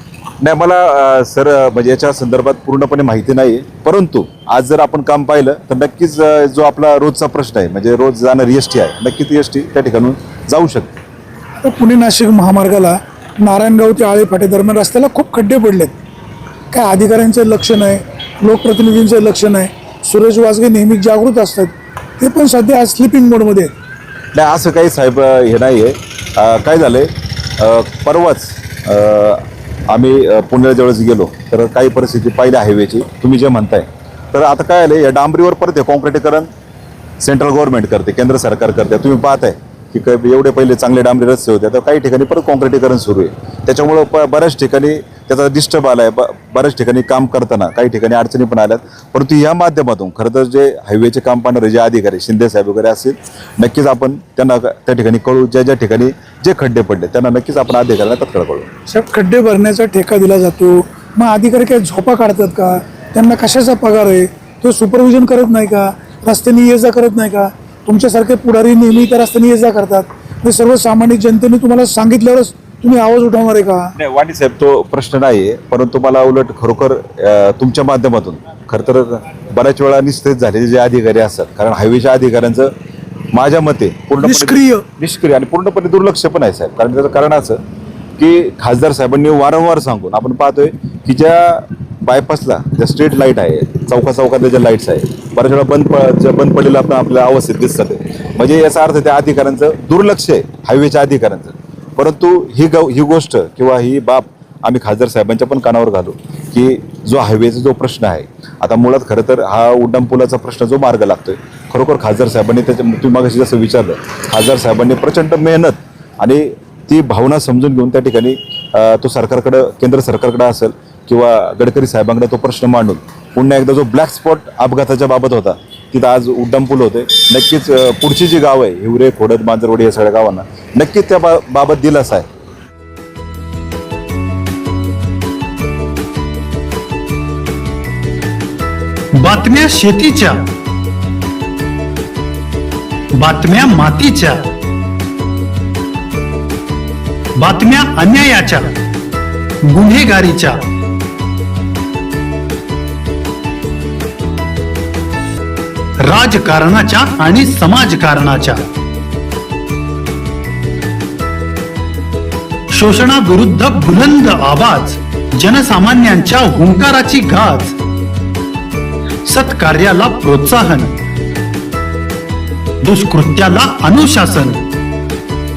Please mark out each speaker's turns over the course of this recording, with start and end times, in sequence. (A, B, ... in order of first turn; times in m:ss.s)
0:00.4-0:10.9 A
0:11.6-0:15.9 B
0:16.7-0:23.7 B
0:24.3-0:36.5 A
0:37.2-0:58.7 A
0:58.9-1:13.9 B
1:14.0-1:22.7 A
1:23.3-1:27.6 A
1:24.2-1:24.8 B
1:28.2-2:12.2 A
2:19.1-2:20.5 C
2:23.2-2:24.5 C
2:27.4-2:28.8 C
2:29.6-2:30.6 C
2:36.0-2:38.6 C
2:42.7-2:47.7 C
2:49.2-2:50.9 C
2:52.8-2:54.6 C